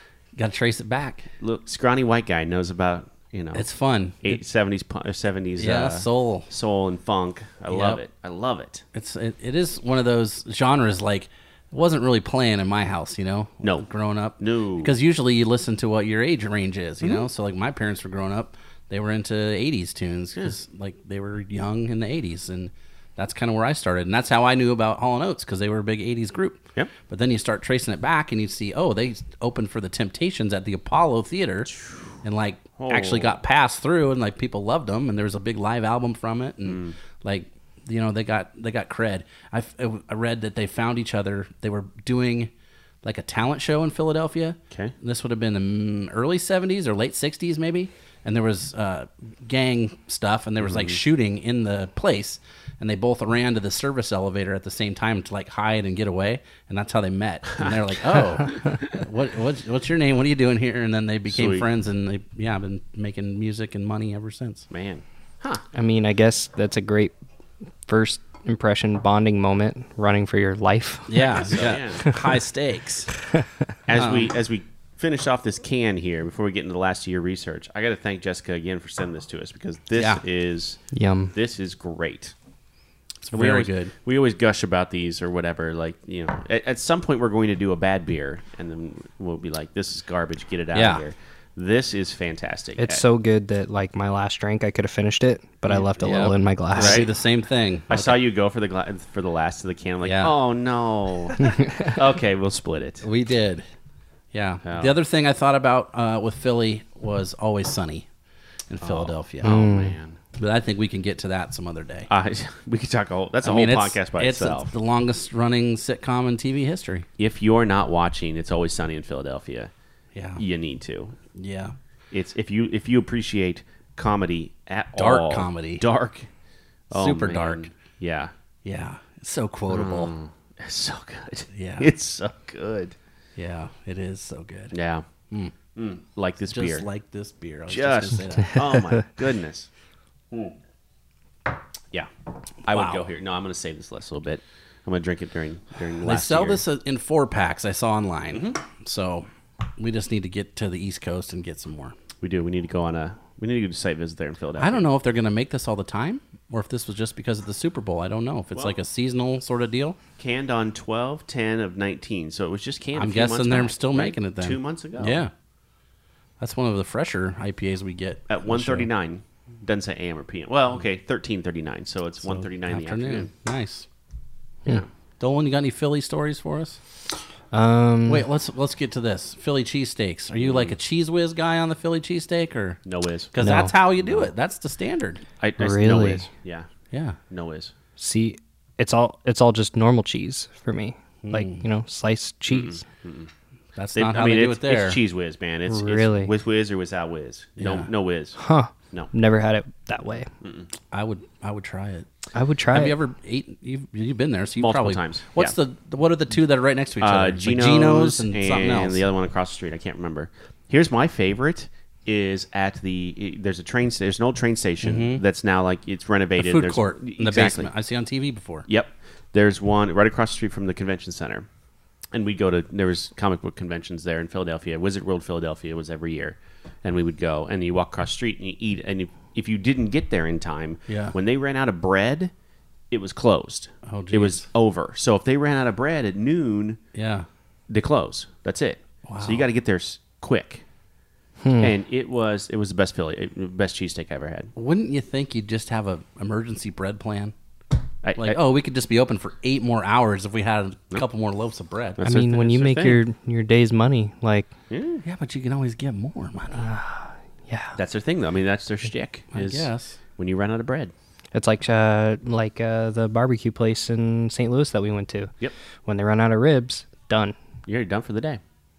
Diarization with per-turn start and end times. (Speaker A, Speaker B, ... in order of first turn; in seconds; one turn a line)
Speaker A: 0.4-1.3
Speaker B: 1.4-3.7
Speaker A: 3.5-4.4
Speaker B: 4.2-8.8
Speaker A: 5.6-6.5
Speaker A: 7.7-8.0
Speaker A: 8.9-42.5
Speaker B: 14.4-14.9
Speaker B: 32.8-33.4
Speaker B: 36.7-37.0
Speaker A: 43.0-64.7
Speaker B: 50.6-51.0
Speaker B: 61.3-61.6
Speaker B: 64.7-65.6
Speaker C: 65.7-67.1
Speaker C: 67.9-72.2
Speaker A: 71.1-73.2
Speaker B: 71.2-72.2
Speaker B: 73.9-82.3
Speaker A: 74.0-74.3
Speaker A: 80.0-80.2
Speaker C: 80.9-81.3
Speaker A: 83.2-83.9
Speaker B: 83.3-93.0
Speaker A: 90.7-91.0
Speaker C: 92.8-97.1
Speaker A: 95.7-98.1
Speaker B: 96.8-97.1
Speaker B: 97.9-103.0
Speaker A: 100.0-100.3
Speaker A: 103.0-103.6
Speaker A: 104.3-108.1
Speaker B: 104.6-105.0
Speaker A: 108.7-109.7
Speaker B: 108.8-110.2
Speaker C: 109.4-110.0
Speaker A: 110.4-112.1
Speaker B: 112.1-114.7
Speaker A: 113.4-117.1
Speaker B: 117.2-119.7
Speaker A: 120.1-120.4
Speaker B: 120.4-121.2
Speaker A: 121.3-121.7
Speaker B: 122.1-126.3
Speaker A: 125.0-125.8
Speaker B: 126.9-128.3
Speaker A: 126.9-127.7
Speaker A: 128.6-130.1
Speaker B: 129.7-132.9
Speaker A: 131.5-131.9
Speaker A: 133.4-134.8
Speaker B: 134.7-135.1
Speaker A: 135.3-135.6
Speaker B: 135.7-136.9
Speaker A: 136.5-138.6
Speaker B: 137.7-139.7
Speaker B: 142.6-146.6
Speaker A: 142.7-143.0
Speaker A: 146.0-151.9
Speaker B: 148.3-148.6
Speaker B: 152.2-154.9
Speaker A: 154.6-160.0
Speaker B: 160.2-165.2
Speaker A: 162.9-165.3
Speaker A: 166.4-168.9
Speaker B: 168.3-173.3
Speaker A: 172.2-173.9
Speaker A: 175.2-176.8
Speaker C: 177.5-178.3
Speaker A: 178.1-182.8
Speaker B: 180.3-180.8
Speaker B: 182.8-183.3
Speaker A: 183.3-185.2
Speaker C: 183.4-183.7
Speaker B: 184.0-184.3
Speaker B: 185.4-186.7
Speaker C: 185.6-186.2
Speaker A: 186.9-187.2
Speaker B: 187.3-187.7
Speaker C: 188.0-192.8
Speaker A: 191.2-191.6
Speaker B: 192.5-193.3
Speaker A: 193.8-195.0
Speaker B: 193.9-198.4
Speaker C: 195.7-196.3
Speaker A: 197.6-197.9
Speaker C: 198.4-200.3
Speaker B: 200.4-200.7
Speaker A: 200.9-202.1
Speaker C: 202.3-203.0
Speaker A: 202.7-209.0
Speaker B: 204.6-205.6
Speaker B: 207.0-217.7
Speaker A: 214.8-215.2
Speaker A: 216.4-218.7
Speaker B: 218.7-221.5
Speaker B: 222.1-232.3
Speaker A: 230.9-231.2
Speaker B: 232.9-236.8
Speaker A: 233.9-234.4
Speaker A: 236.9-237.3
Speaker B: 237.7-240.6
Speaker A: 239.1-239.5
Speaker C: 241.4-241.7
Speaker B: 241.6-244.5
Speaker A: 244.6-247.3
Speaker B: 248.0-248.4
Speaker A: 248.2-252.1
Speaker B: 252.0-253.0
Speaker C: 252.0-254.5
Speaker B: 254.7-255.0
Speaker A: 255.0-256.7
Speaker C: 256.6-257.8
Speaker B: 257.8-260.9
Speaker A: 259.3-260.0
Speaker C: 261.3-265.3
Speaker C: 265.9-267.4
Speaker B: 267.7-268.4